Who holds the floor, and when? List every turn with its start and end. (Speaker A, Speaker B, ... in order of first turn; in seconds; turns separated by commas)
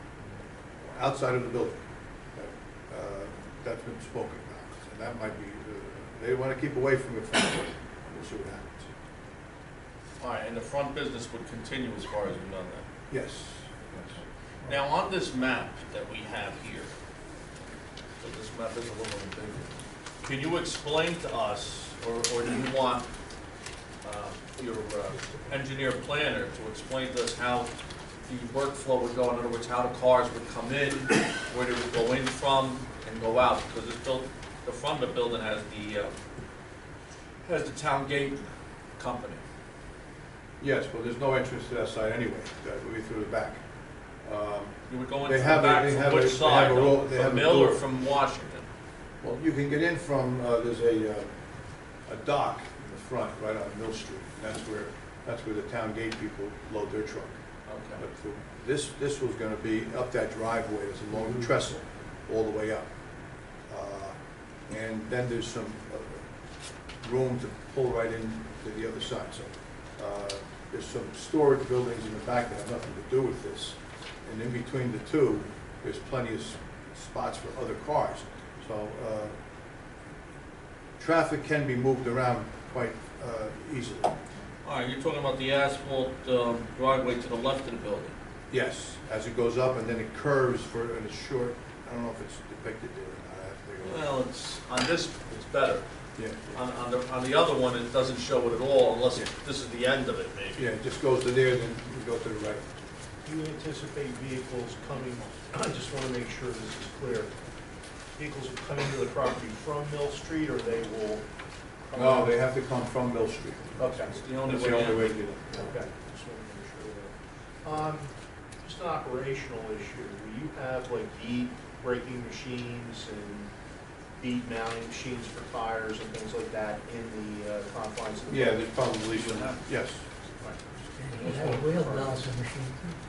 Speaker A: 0.8-8.9, Speaker B: 10.2-12.8, Speaker A: 13.1-14.2, Speaker B: 14.0-16.9, Speaker B: 18.2-19.7, Speaker B: 20.2-23.1, Speaker B: 24.0-27.7, Speaker B: 28.3-36.1, Speaker B: 37.4-39.4, Speaker A: 40.6-43.6, Speaker A: 44.2-47.8, Speaker B: 44.9-48.7, Speaker A: 49.2-51.3, Speaker A: 52.1-57.4, Speaker B: 57.7-58.0, Speaker A: 58.0-62.9, Speaker A: 63.7-64.2, Speaker A: 64.7-66.2, Speaker A: 67.0-79.3, Speaker A: 81.0-84.2, Speaker B: 84.6-88.1, Speaker A: 88.5-94.2, Speaker B: 93.8-95.8, Speaker A: 96.2-96.6, Speaker B: 96.5-100.7, Speaker A: 100.6-102.7, Speaker C: 103.2-107.3, Speaker C: 108.2-111.2, Speaker C: 111.9-112.3, Speaker A: 112.0-115.7, Speaker C: 113.8-114.8, Speaker B: 114.0-115.2, Speaker C: 115.5-123.5, Speaker C: 124.2-129.6, Speaker A: 128.3-130.1, Speaker C: 130.4-132.3, Speaker D: 131.0-133.0